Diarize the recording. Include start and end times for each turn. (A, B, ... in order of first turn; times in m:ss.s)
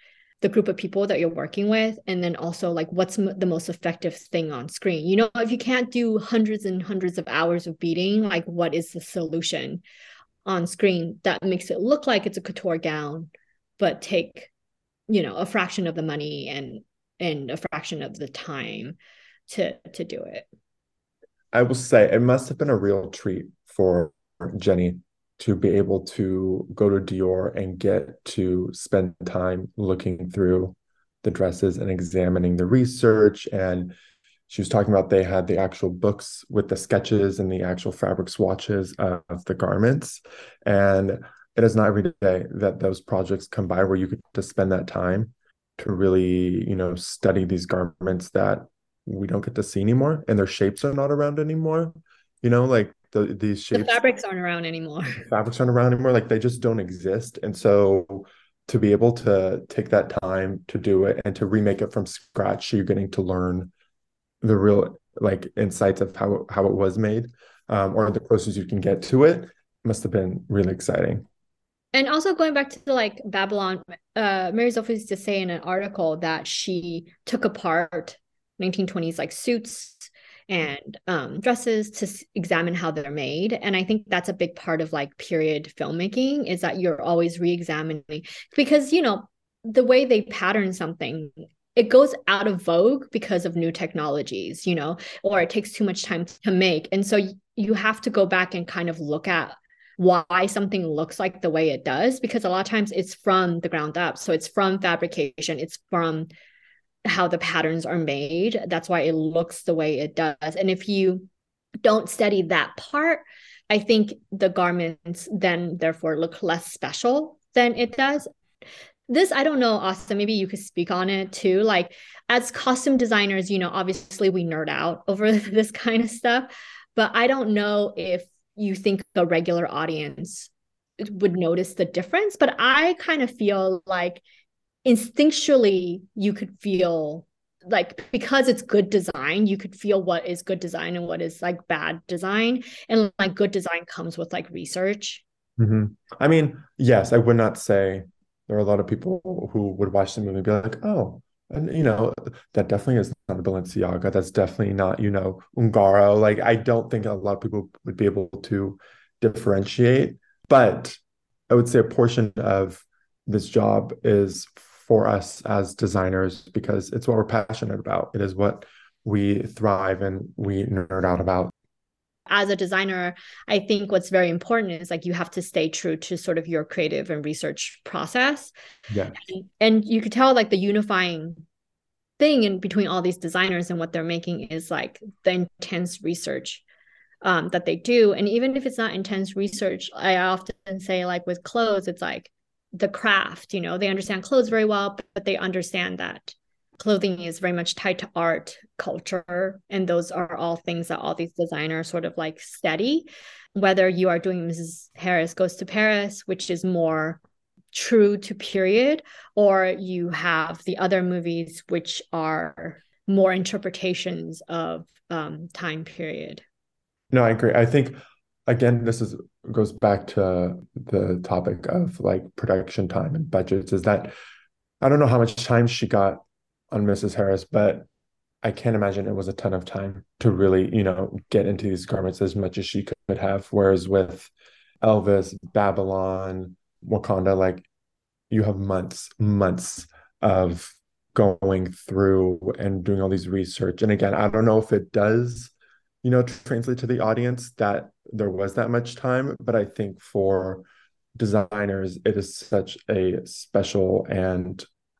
0:00.4-0:09.8 A
0:10.4-0:14.5 A
0:15.1-0:19.0 A
0:19.5-0:20.4 A
0:21.5-0:33.9 B
0:34.5-0:54.0 B
0:53.7-0:55.2 A
0:55.2-1:03.7 B
1:04.4-1:11.2 B
1:11.9-1:46.3 A
1:47.0-1:51.3 A
1:51.8-1:58.3 A
1:59.1-2:14.2 A
2:14.8-2:25.2 A
2:25.6-2:41.0 B
2:41.5-2:51.5 B
2:52.3-2:58.5 A
2:58.9-2:59.2 B
2:59.2-3:01.4 A
3:02.2-3:06.6 A
3:07.2-3:27.2 A
3:27.7-3:36.4 A
3:37.1-3:44.1 B
3:44.8-3:47.9 B
3:48.4-3:54.3 B
3:54.8-3:57.6 B
3:58.3-4:05.5 B
4:06.0-4:10.6 B
4:11.2-4:14.6 B